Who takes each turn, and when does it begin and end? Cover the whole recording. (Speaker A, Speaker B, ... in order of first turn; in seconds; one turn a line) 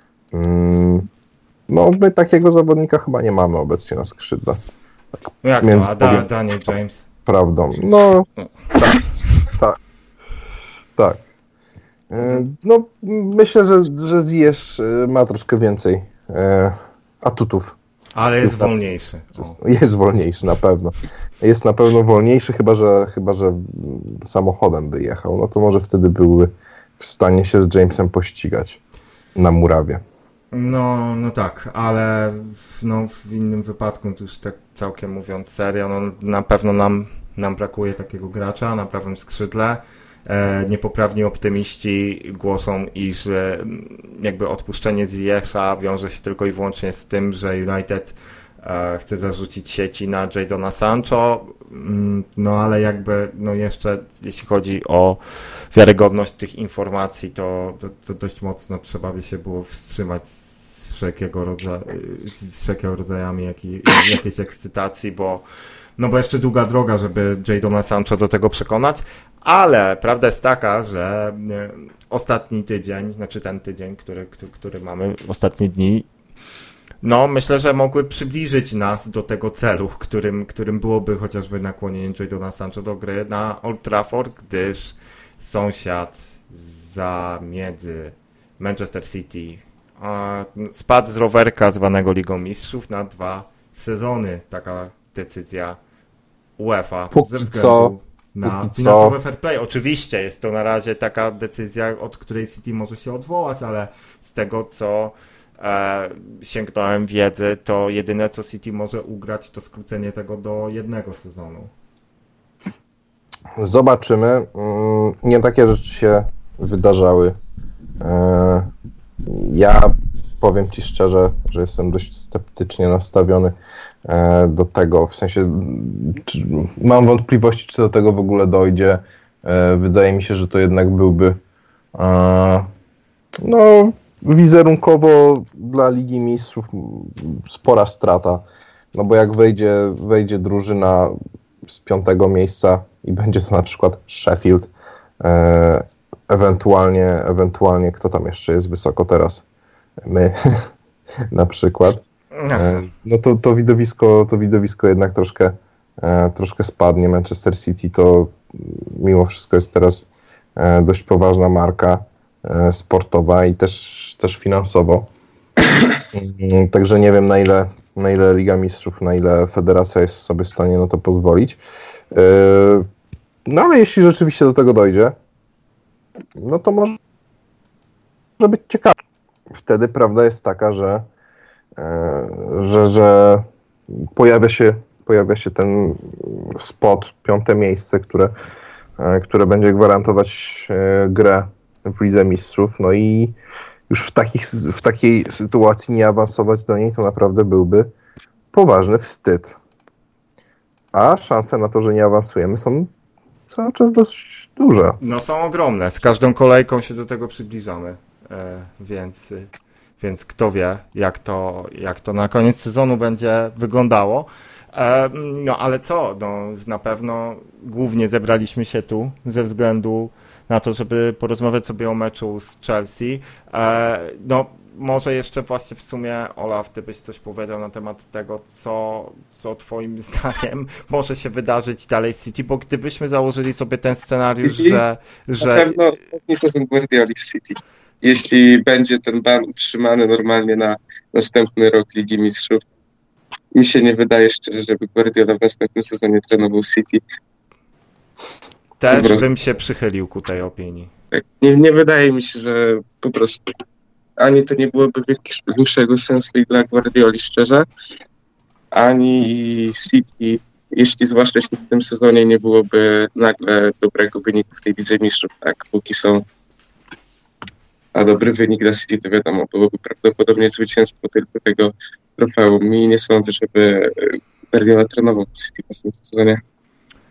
Speaker A: 0.3-1.1
Speaker A: 1.7-4.6
Speaker B: 5.4-7.1
Speaker A: 5.6-6.3
Speaker A: 7.3-9.8
Speaker A: 12.1-17.8
Speaker B: 18.1-19.6
Speaker A: 18.4-18.8
Speaker A: 19.4-28.8
Speaker A: 29.4-30.0
Speaker B: 30.5-55.2
Speaker B: 55.7-65.5
Speaker B: 66.0-76.1
Speaker B: 77.0-95.8
Speaker B: 96.6-111.7
Speaker A: 97.1-99.2
Speaker A: 113.6-117.4
Speaker A: 118.0-118.7
Speaker A: 119.2-131.4
Speaker A: 131.9-132.7
Speaker A: 133.4-144.7
Speaker A: 145.2-149.4
Speaker A: 150.0-150.7
Speaker A: 151.3-165.1
Speaker B: 152.3-152.8
Speaker A: 166.1-171.6
Speaker A: 172.1-172.9
Speaker A: 173.5-175.2
Speaker A: 176.4-177.0
Speaker A: 178.4-178.9
Speaker A: 179.5-181.1
Speaker A: 181.8-183.5
Speaker A: 184.0-188.3
Speaker A: 189.0-193.3
Speaker A: 193.9-197.9
Speaker A: 198.5-199.6
Speaker A: 200.9-202.9
Speaker A: 203.5-205.0
Speaker B: 205.0-235.8
Speaker C: 234.4-234.8
Speaker C: 235.4-242.6
Speaker C: 243.5-247.0
Speaker B: 248.8-250.9
Speaker C: 248.9-249.3
Speaker C: 251.1-253.5
Speaker C: 254.2-257.7
Speaker C: 258.7-266.2
Speaker C: 267.9-276.4